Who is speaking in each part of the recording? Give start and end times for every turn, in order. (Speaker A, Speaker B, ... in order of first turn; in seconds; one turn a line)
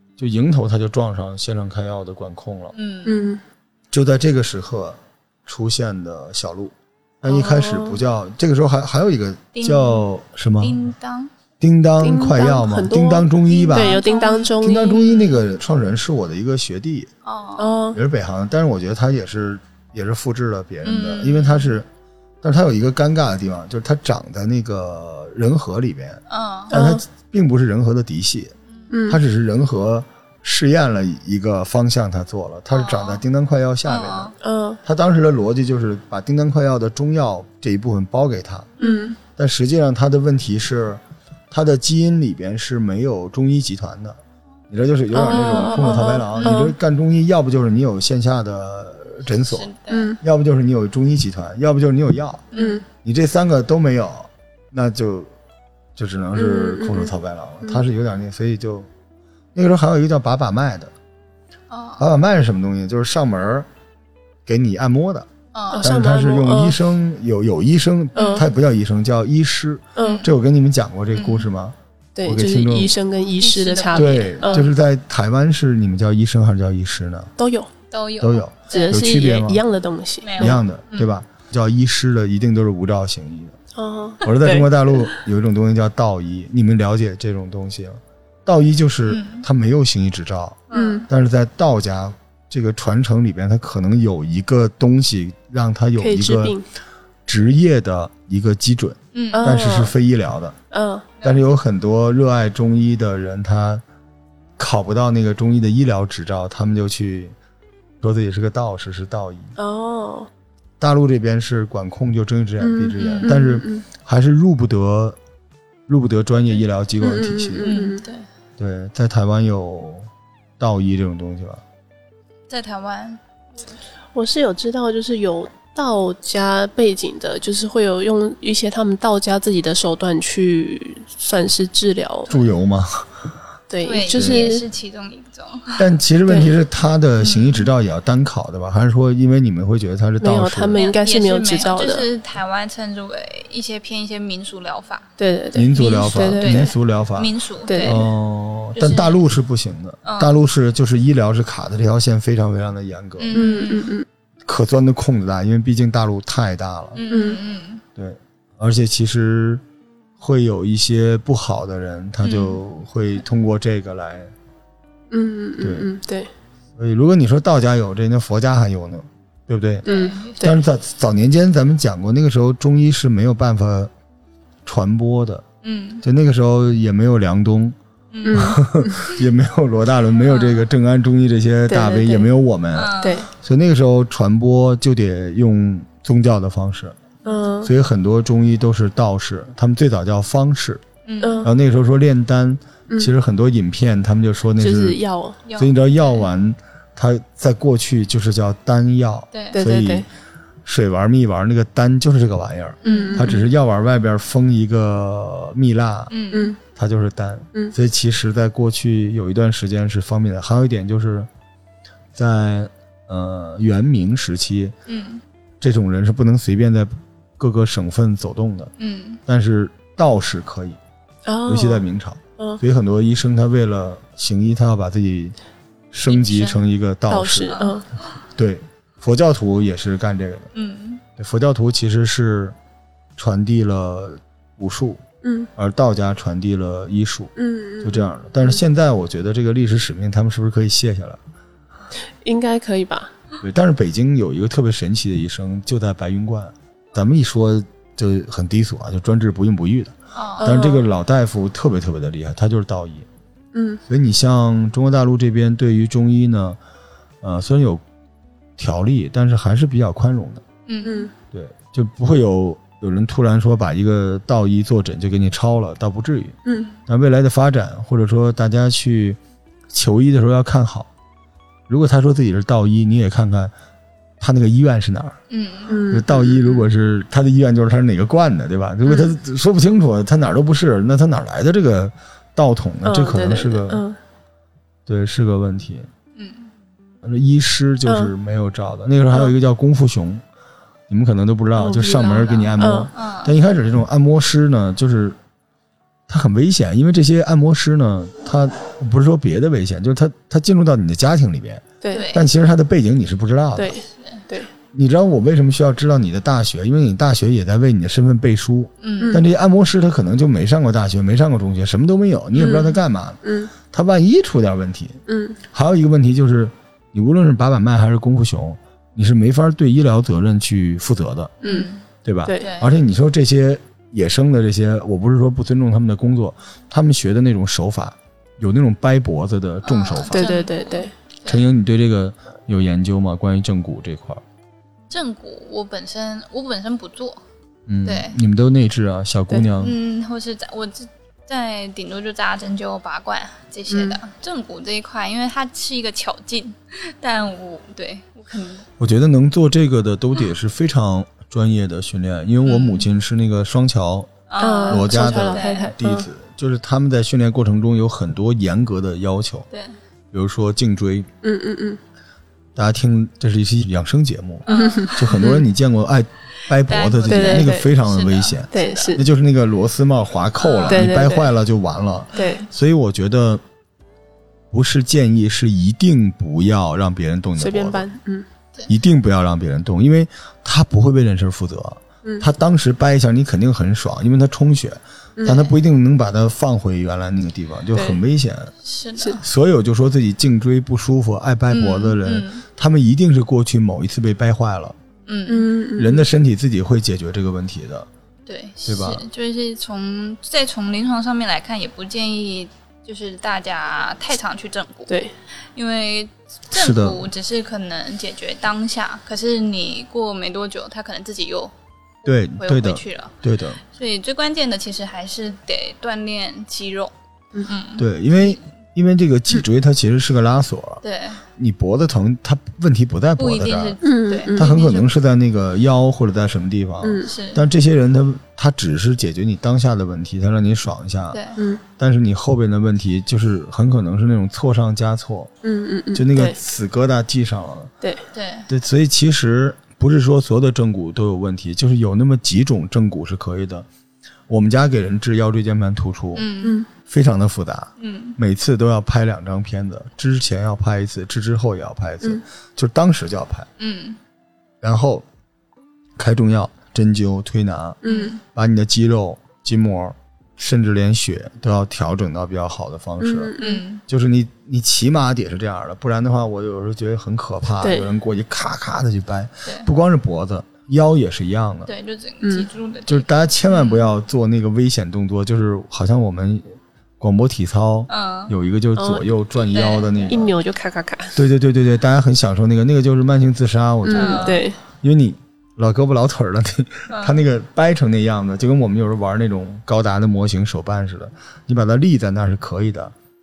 Speaker A: 0.2-2.7
Speaker B: 2.7-3.4
Speaker C: 3.0-3.4
Speaker A: 3.9-10.8
Speaker C: 7.3-8.0
Speaker B: 9.6-10.1
Speaker B: 10.6-11.3
Speaker A: 11.6-14.0
Speaker C: 12.0-15.0
Speaker B: 13.5-15.4
Speaker A: 14.6-17.1
Speaker B: 17.2-17.8
Speaker C: 17.6-18.0
Speaker A: 17.9-21.9
Speaker B: 20.8-21.8
Speaker A: 22.4-28.5
Speaker B: 26.3-26.7
Speaker C: 26.7-27.0
Speaker C: 28.9-29.2
Speaker A: 29.1-38.8
Speaker B: 32.7-33.2
Speaker B: 33.9-34.4
Speaker C: 34.4-34.8
Speaker B: 38.8-39.2
Speaker C: 38.8-39.2
Speaker A: 39.3-44.2
Speaker A: 44.7-55.3
Speaker C: 45.1-46.8
Speaker B: 45.3-46.7
Speaker B: 49.4-50.1
Speaker C: 49.9-50.2
Speaker B: 52.5-52.8
Speaker C: 52.5-52.8
Speaker A: 56.0-58.9
Speaker C: 56.4-57.8
Speaker A: 59.5-60.9
Speaker B: 61.7-62.0
Speaker A: 62.0-63.7
Speaker A: 64.5-65.3
Speaker B: 65.5-65.9
Speaker C: 65.7-66.8
Speaker A: 65.8-73.0
Speaker C: 68.2-68.4
Speaker B: 68.2-68.5
Speaker C: 70.0-70.2
Speaker B: 70.0-70.3
Speaker B: 71.1-71.5
Speaker C: 72.2-74.7
Speaker B: 73.4-74.6
Speaker A: 73.9-77.3
Speaker C: 77.4-77.7
Speaker B: 77.9-79.2
Speaker A: 78.2-79.6
Speaker C: 78.7-80.6
Speaker B: 80.2-81.2
Speaker A: 80.4-83.6
Speaker C: 83.8-85.1
Speaker A: 84.2-96.6
Speaker B: 89.1-89.5
Speaker B: 90.7-91.1
Speaker C: 90.7-91.1
Speaker C: 96.0-96.7
Speaker A: 97.3-100.6
Speaker B: 99.1-99.5
Speaker C: 99.3-99.9
Speaker C: 100.7-101.1
Speaker A: 101.2-103.8
Speaker A: 104.6-107.3
Speaker A: 108.0-109.5
Speaker C: 109.6-110.3
Speaker A: 110.8-115.2
Speaker C: 112.6-113.8
Speaker B: 113.0-113.4
Speaker A: 115.9-117.7
Speaker C: 117.0-118.0
Speaker B: 117.6-118.2
Speaker A: 118.6-121.6
Speaker B: 122.5-123.2
Speaker C: 124.1-132.3
Speaker A: 132.3-133.1
Speaker C: 133.7-134.7
Speaker B: 133.8-135.9
Speaker A: 134.1-134.5
Speaker A: 135.8-140.8
Speaker C: 136.3-136.5
Speaker B: 137.2-137.7
Speaker C: 140.2-142.1
Speaker B: 140.7-145.1
Speaker C: 145.2-146.7
Speaker A: 145.5-153.6
Speaker B: 145.7-148.1
Speaker C: 147.7-148.0
Speaker B: 148.8-149.2
Speaker B: 150.1-150.4
Speaker B: 153.2-153.9
Speaker C: 153.3-154.1
Speaker A: 154.5-157.0
Speaker B: 156.9-157.8
Speaker C: 157.1-157.4
Speaker A: 158.0-159.6
Speaker A: 160.2-164.3
Speaker B: 162.2-162.6
Speaker C: 165.1-166.3
Speaker A: 165.6-165.9
Speaker A: 166.8-169.8
Speaker B: 169.8-170.6
Speaker C: 169.8-170.6
Speaker A: 170.4-173.9
Speaker A: 174.7-175.4
Speaker B: 175.6-176.0
Speaker A: 176.0-177.8
Speaker B: 178.1-178.6
Speaker C: 178.3-179.0
Speaker A: 178.3-187.0
Speaker B: 180.2-180.6
Speaker C: 181.7-182.3
Speaker B: 182.7-183.2
Speaker C: 183.0-183.3
Speaker C: 187.2-187.7
Speaker A: 187.6-190.8
Speaker B: 191.1-191.5
Speaker C: 191.2-191.5
Speaker A: 191.4-195.0
Speaker C: 194.6-195.4
Speaker B: 195.5-196.2
Speaker A: 195.5-200.1
Speaker B: 199.3-199.6
Speaker C: 199.5-200.1
Speaker A: 200.7-206.1
Speaker B: 202.8-203.4
Speaker C: 202.8-203.4
Speaker B: 206.1-206.5
Speaker C: 206.3-206.6
Speaker A: 206.7-211.3
Speaker A: 212.2-214.7
Speaker B: 214.9-215.2
Speaker A: 215.6-218.7
Speaker B: 218.8-219.2
Speaker A: 219.3-220.8
Speaker C: 221.3-221.9
Speaker A: 221.5-225.4
Speaker A: 225.9-227.5
Speaker B: 226.1-226.7
Speaker C: 227.1-227.9
Speaker B: 227.5-227.8
Speaker A: 228.3-230.5
Speaker B: 230.5-231.0
Speaker A: 231.2-232.6
Speaker A: 233.2-235.0
Speaker C: 235.2-235.5
Speaker A: 235.6-241.2
Speaker C: 237.4-238.6
Speaker C: 242.2-243.1
Speaker A: 243.4-253.1
Speaker B: 250.2-250.6
Speaker C: 250.4-250.8
Speaker C: 253.5-253.8
Speaker A: 253.9-256.6
Speaker A: 257.2-257.8
Speaker A: 258.6-260.4
Speaker B: 260.7-261.1
Speaker C: 260.8-261.1
Speaker A: 261.3-266.4
Speaker C: 266.4-266.7
Speaker A: 266.9-269.2
Speaker A: 269.7-270.9
Speaker A: 271.7-273.5
Speaker A: 274.2-275.2
Speaker B: 275.3-275.8
Speaker C: 275.7-276.5
Speaker A: 275.9-283.8
Speaker C: 282.8-284.0
Speaker A: 284.9-285.9
Speaker B: 286.2-286.5
Speaker A: 287.0-290.2
Speaker C: 287.9-288.1
Speaker A: 290.9-295.2
Speaker C: 291.6-292.9
Speaker B: 292.0-293.3
Speaker A: 296.1-303.8
Speaker B: 301.9-302.3
Speaker C: 303.6-304.5
Speaker B: 304.0-304.2
Speaker A: 304.7-315.0
Speaker B: 308.8-309.2
Speaker B: 312.4-312.7
Speaker C: 312.4-312.7
Speaker C: 313.2-313.5
Speaker C: 315.1-315.4
Speaker A: 315.5-321.4
Speaker B: 321.4-321.9
Speaker C: 321.4-321.7
Speaker A: 322.0-330.3
Speaker B: 322.4-322.7
Speaker B: 329.6-331.4
Speaker C: 330.1-330.9
Speaker A: 331.2-334.2
Speaker B: 334.9-337.2
Speaker A: 337.7-339.8
Speaker B: 337.9-338.2
Speaker B: 339.6-348.7
Speaker A: 348.8-354.1
Speaker B: 352.4-352.9
Speaker B: 354.3-355.7
Speaker C: 354.4-356.1
Speaker A: 354.6-359.5
Speaker B: 359.5-359.8
Speaker A: 360.1-361.1
Speaker C: 361.2-361.8
Speaker A: 362.6-373.4
Speaker B: 364.5-365.2
Speaker C: 364.5-365.4
Speaker B: 366.6-368.9
Speaker C: 367.1-367.7
Speaker C: 368.5-369.0
Speaker B: 370.4-370.9
Speaker C: 370.7-371.3
Speaker C: 372.1-372.4
Speaker A: 374.5-377.9
Speaker C: 377.4-378.3
Speaker A: 378.7-388.5
Speaker C: 385.2-385.5
Speaker C: 387.7-388.0
Speaker B: 388.6-389.2
Speaker A: 389.2-394.8
Speaker B: 391.5-392.4
Speaker B: 395.1-395.5
Speaker C: 395.3-396.0
Speaker A: 395.8-397.9
Speaker B: 398.3-405.0
Speaker A: 398.6-399.1
Speaker C: 404.9-405.1
Speaker B: 405.5-411.5
Speaker A: 406.5-407.0
Speaker A: 412.1-413.6
Speaker B: 412.3-413.1
Speaker B: 413.7-416.9
Speaker B: 417.5-418.4
Speaker A: 417.8-420.8
Speaker B: 420.8-421.2
Speaker A: 421.4-423.8
Speaker B: 423.2-424.9
Speaker C: 423.8-424.5
Speaker A: 424.3-431.2
Speaker C: 426.8-427.1
Speaker B: 427.1-427.4
Speaker B: 431.1-431.4
Speaker C: 431.4-431.6
Speaker A: 431.8-435.3
Speaker C: 435.4-436.4
Speaker A: 435.9-437.7
Speaker B: 438.1-438.5
Speaker A: 438.5-443.7
Speaker A: 444.3-453.5
Speaker B: 446.1-446.6
Speaker C: 446.4-446.7
Speaker B: 447.8-448.2
Speaker B: 453.6-454.0
Speaker A: 454.6-455.1
Speaker A: 456.0-463.4
Speaker C: 457.8-458.2
Speaker B: 457.9-458.2
Speaker C: 463.0-463.6
Speaker B: 463.4-463.8
Speaker A: 463.9-471.7
Speaker C: 467.6-467.9
Speaker B: 471.7-473.9
Speaker C: 472.2-472.5
Speaker A: 472.9-480.3
Speaker B: 477.9-478.3
Speaker C: 478.8-479.1
Speaker B: 479.4-480.2
Speaker C: 480.1-481.2
Speaker A: 481.1-492.9
Speaker C: 483.8-484.6
Speaker B: 483.9-484.4
Speaker B: 486.9-487.2